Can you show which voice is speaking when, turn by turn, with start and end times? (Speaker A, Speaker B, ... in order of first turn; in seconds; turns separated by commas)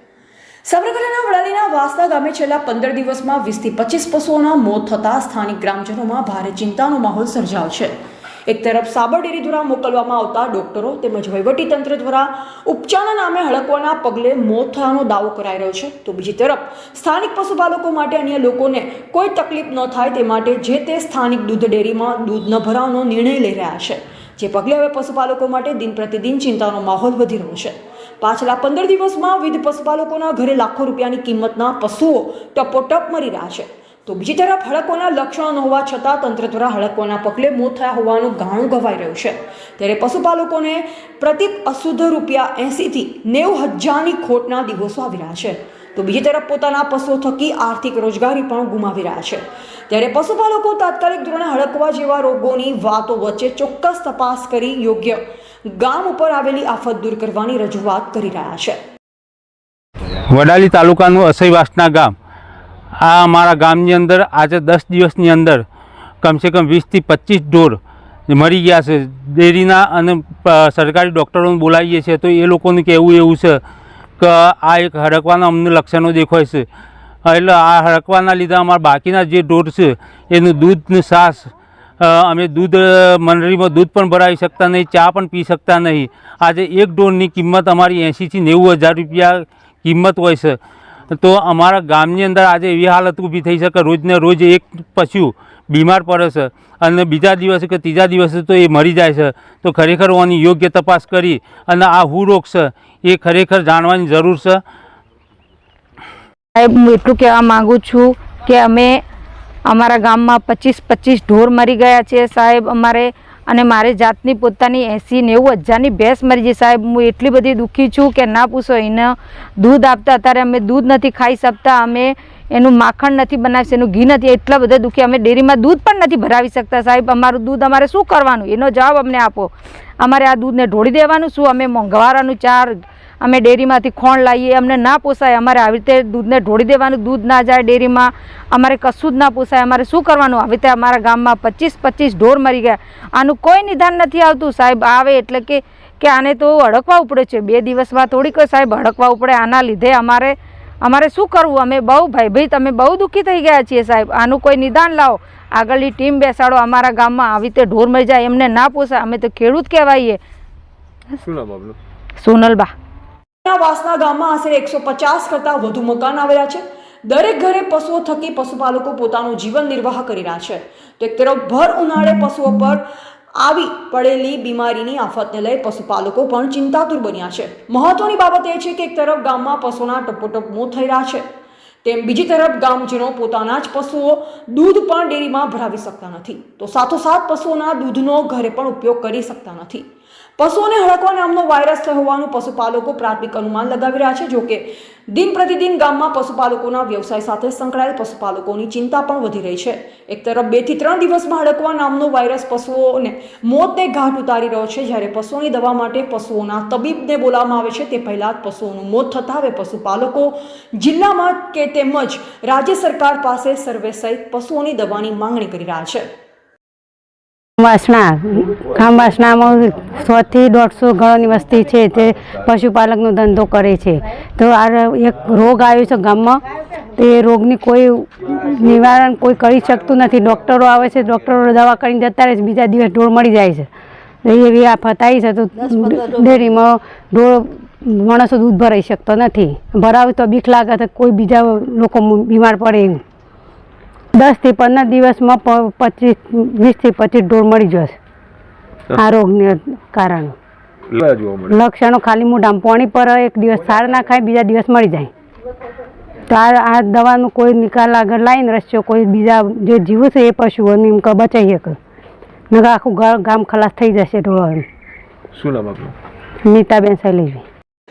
Speaker A: 0.6-8.0, Speaker A: 8.5-58.8, Speaker B: 60.3-62.1, Speaker B: 63.0-65.6, Speaker B: 66.2-73.6, Speaker B: 74.2-76.7, Speaker B: 77.2-90.6, Speaker B: 91.2-104.6, Speaker C: 106.5-109.0, Speaker C: 109.7-160.2, Speaker D: 161.2-161.8, Speaker C: 162.2-162.7, Speaker A: 163.4-172.8, Speaker A: 173.4-181.2, Speaker A: 181.8-189.9, Speaker A: 190.4-216.1, Speaker E: 217.6-226.4, Speaker E: 226.9-233.7, Speaker E: 234.2-243.0, Speaker E: 244.1-247.9, Speaker E: 248.9-250.3, Speaker D: 250.9-251.6, Speaker E: 251.5-255.1, Speaker E: 256.3-261.8, Speaker E: 262.5-264.6, Speaker D: 265.3-265.9, Speaker E: 266.4-267.4